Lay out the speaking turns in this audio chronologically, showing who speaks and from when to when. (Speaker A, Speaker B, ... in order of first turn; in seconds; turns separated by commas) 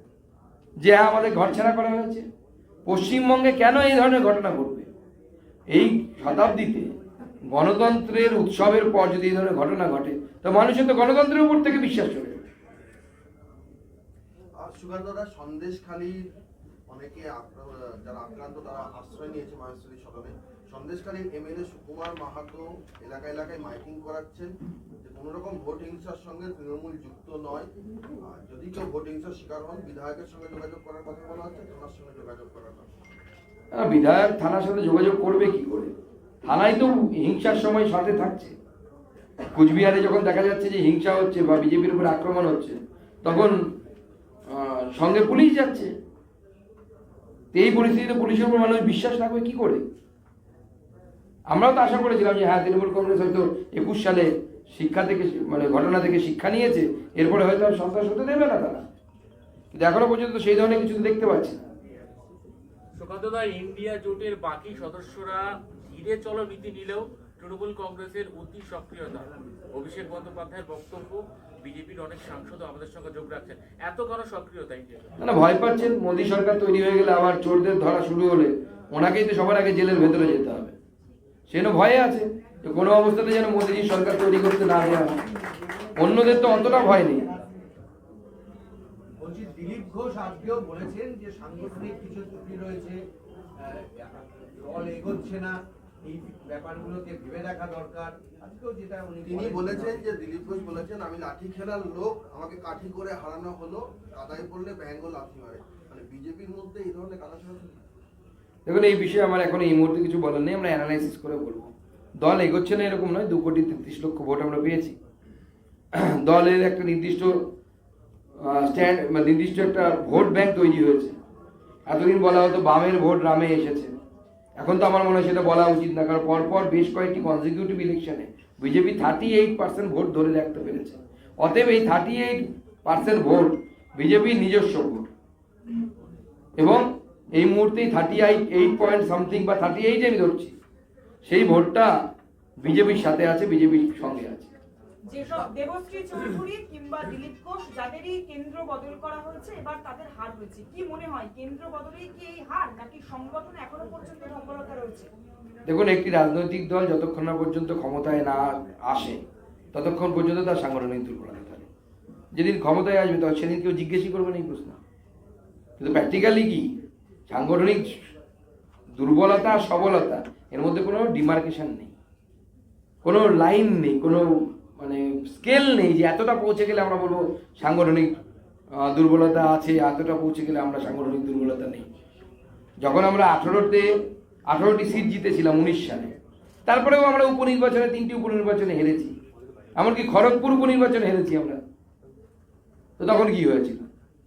Speaker A: 0.8-2.3, Speaker A: 2.9-4.9, Speaker A: 5.7-6.9, Speaker A: 7.5-12.4, Speaker B: 14.6-16.3, Speaker B: 16.9-27.7, Speaker B: 28.2-32.9, Speaker A: 33.7-35.9, Speaker A: 36.5-38.5, Speaker A: 39.5-43.6, Speaker A: 44.5-45.9, Speaker A: 47.5-49.8, Speaker A: 51.5-58.8, Speaker A: 59.7-61.6, Speaker C: 63.0-75.2, Speaker A: 75.2-80.7, Speaker A: 81.5-85.2, Speaker A: 86.0-87.3, Speaker D: 86.0-87.5, Speaker D: 89.2-93.0, Speaker D: 93.6-100.1, Speaker B: 99.2-107.8, Speaker A: 108.7-115.0, Speaker A: 115.9-117.4, Speaker A: 118.4-121.2, Speaker A: 121.9-123.9, Speaker A: 124.6-135.1, Speaker A: 136.6-140.5, Speaker A: 141.2-142.0, Speaker A: 142.6-144.5, Speaker E: 145.0-155.1, Speaker A: 155.7-159.2, Speaker A: 159.7-161.7, Speaker A: 162.3-164.8, Speaker A: 165.8-166.7, Speaker A: 167.3-168.0, Speaker A: 168.9-171.9, Speaker A: 173.0-178.2, Speaker A: 178.8-181.9, Speaker A: 182.8-183.9, Speaker A: 184.5-186.1, Speaker A: 186.7-189.1, Speaker A: 189.8-191.6, Speaker A: 193.0-193.8